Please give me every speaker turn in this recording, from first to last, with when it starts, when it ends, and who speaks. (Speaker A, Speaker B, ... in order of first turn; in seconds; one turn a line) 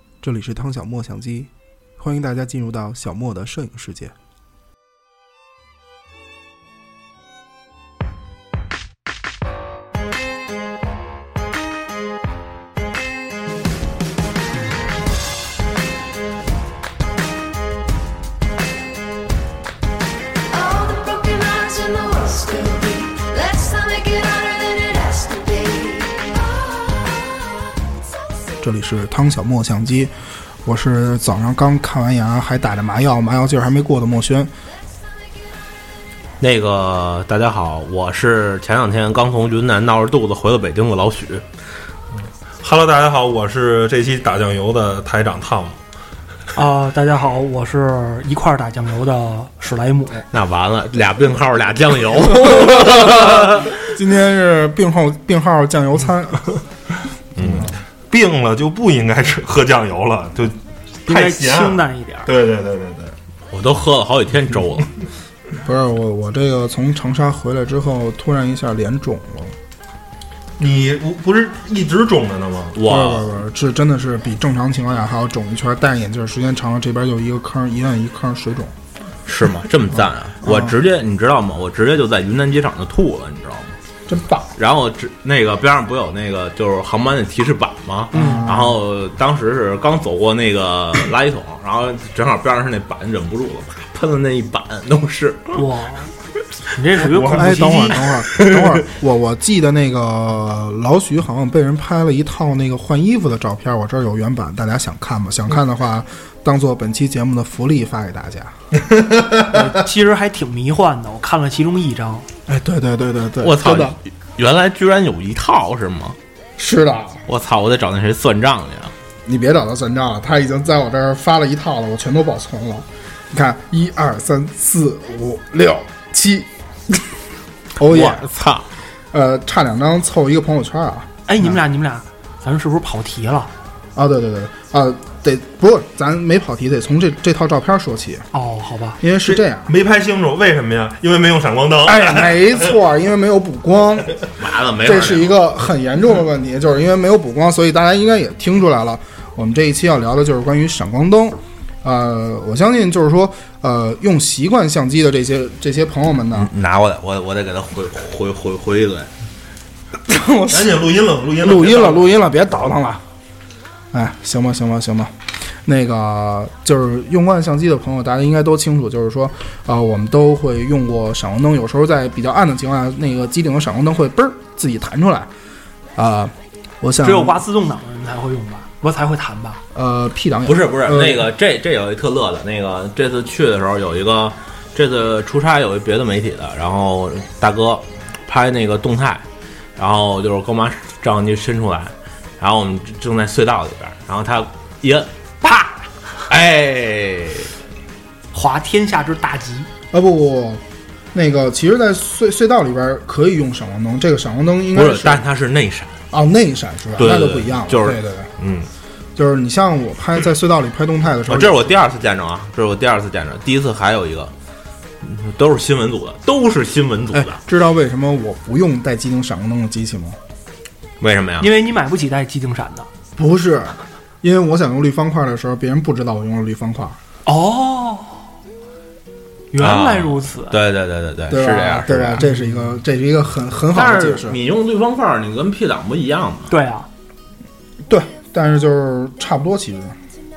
Speaker A: 0.2-4.1
Speaker B: 20.5-27.3
Speaker A: 28.6-34.5
Speaker C: 36.4-41.5
Speaker D: 42.1-45.8
Speaker E: 46.5-50.2
Speaker C: 50.3-53.8
Speaker A: 52.3-56.5
Speaker D: 57.4-63.2
Speaker A: 57.4-57.7
Speaker E: 61.0-62.3
Speaker C: 63.5-64.9
Speaker A: 65.6-69.5
Speaker D: 70.6-72.9
Speaker C: 72.7-73.3
Speaker A: 72.8-78.7
Speaker C: 79.2-83.8
Speaker A: 80.4-80.8
Speaker A: 84.1-84.5
Speaker C: 84.6-95.6
Speaker E: 88.1-88.5
Speaker A: 88.1-88.8
Speaker E: 95.5-96.1
Speaker E: 96.7-98.0
Speaker D: 97.0-98.0
Speaker A: 97.2-108.6
Speaker C: 98.3-98.8
Speaker E: 109.4-112.3
Speaker A: 112.5-114.0
Speaker C: 113.4-116.2
Speaker A: 116.6-117.2
Speaker C: 117.3-118.9
Speaker A: 119.2-127.0
Speaker A: 127.8-128.2
Speaker C: 127.8-128.7
Speaker A: 129.1-131.6
Speaker E: 131.3-133.5
Speaker A: 133.9-138.3
Speaker E: 138.3-139.0
Speaker A: 139.0-139.7
Speaker D: 139.3-142.8
Speaker A: 141.8-144.2
Speaker C: 144.4-145.4
Speaker A: 144.8-156.5
Speaker C: 156.3-159.1
Speaker A: 160.0-163.0
Speaker D: 160.5-162.1
Speaker A: 163.9-175.3
Speaker A: 175.9-177.4
Speaker E: 177.0-179.6
Speaker A: 179.7-181.3
Speaker C: 180.4-189.2
Speaker C: 189.8-197.5
Speaker E: 198.3-199.7
Speaker A: 199.9-200.6
Speaker A: 201.1-205.2
Speaker C: 204.7-205.9
Speaker A: 206.1-208.3
Speaker C: 207.0-208.0
Speaker D: 208.4-208.7
Speaker A: 209.2-211.7
Speaker C: 211.3-214.3
Speaker C: 215.0-217.4
Speaker A: 217.1-220.2
Speaker C: 221.0-221.5
Speaker E: 221.4-222.9
Speaker A: 223.2-227.0
Speaker E: 227.2-228.2
Speaker E: 229.5-230.6
Speaker C: 229.6-232.3
Speaker A: 231.3-234.4
Speaker C: 233.7-236.5
Speaker E: 236.5-236.9
Speaker A: 237.8-240.0